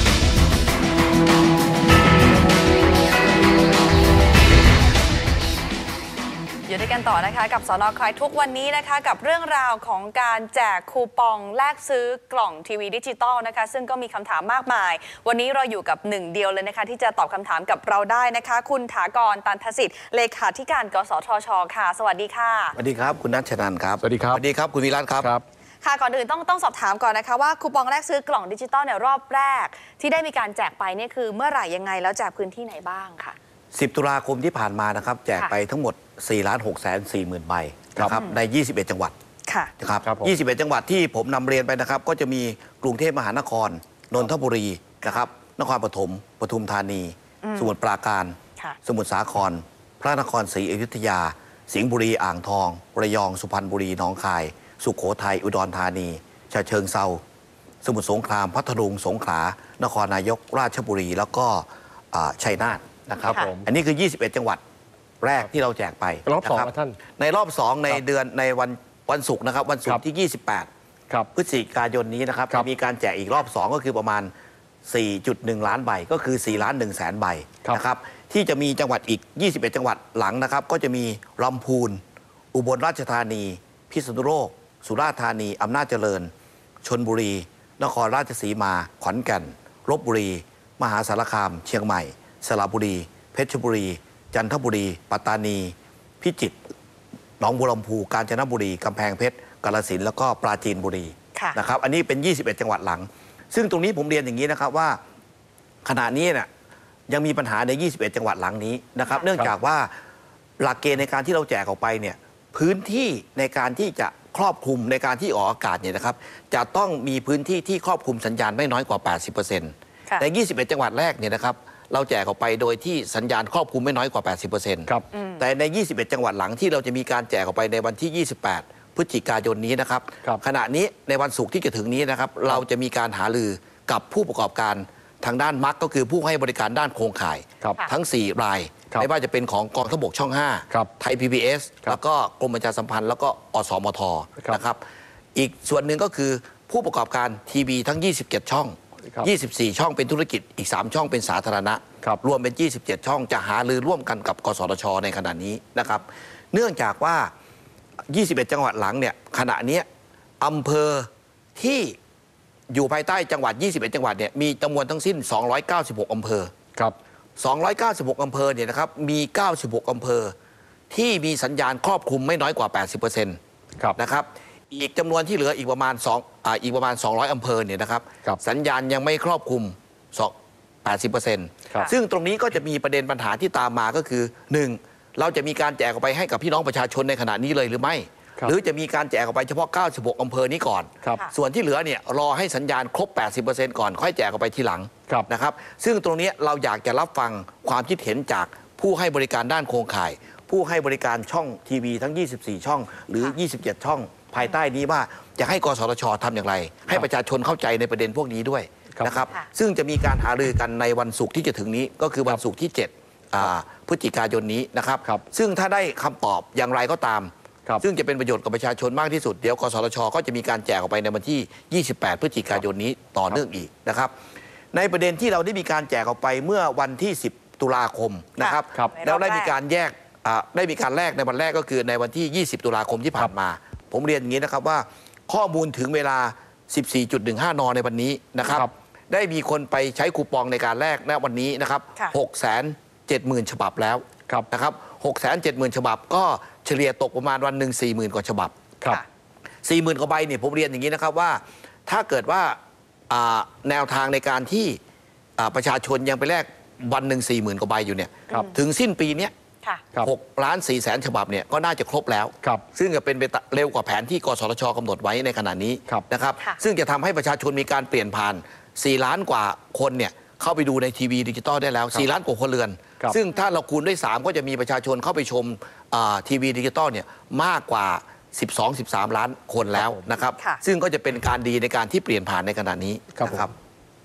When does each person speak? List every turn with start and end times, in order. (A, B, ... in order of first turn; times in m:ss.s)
0:06.7-0:22.8 A
0:22.8-0:25.3 B
0:24.0-0:24.4 C
0:25.2-0:25.4 C
0:25.8-0:33.4 A
0:33.7-0:39.1 B
0:38.1-0:38.4 A
0:39.4-0:39.7 A
0:39.8-0:57.2 B
0:40.0-0:40.3 C
0:47.4-0:47.7 A
0:57.8-1:04.6 B
1:03.2-1:03.7 C
1:05.2-1:10.7 B
1:06.2-1:07.0 C
1:11.4-1:14.3 B
1:14.9-1:22.0 B
1:22.5-1:26.3 B
1:26.8-1:36.6 B
1:37.4-1:45.0 B
1:45.8-1:46.5 B
1:47.1-1:49.9 B
1:50.6-2:24.8 B
2:05.1-2:05.4 A
2:25.4-2:37.3 B
2:38.1-2:39.9 B
2:40.4-2:42.0 B
2:42.7-2:46.5 B
2:47.4-2:50.3 B
2:50.9-2:53.4 B
2:54.0-3:00.3 B
3:00.8-3:44.1 B
3:44.7-4:08.6 B
3:48.4-3:49.5 A
3:58.4-3:58.7 C
4:09.6-4:12.6 B
4:13.1-4:14.8 B
4:15.4-4:19.3 B
4:20.0-4:43.5 B
4:39.8-4:40.0 C
4:43.1-4:43.5 C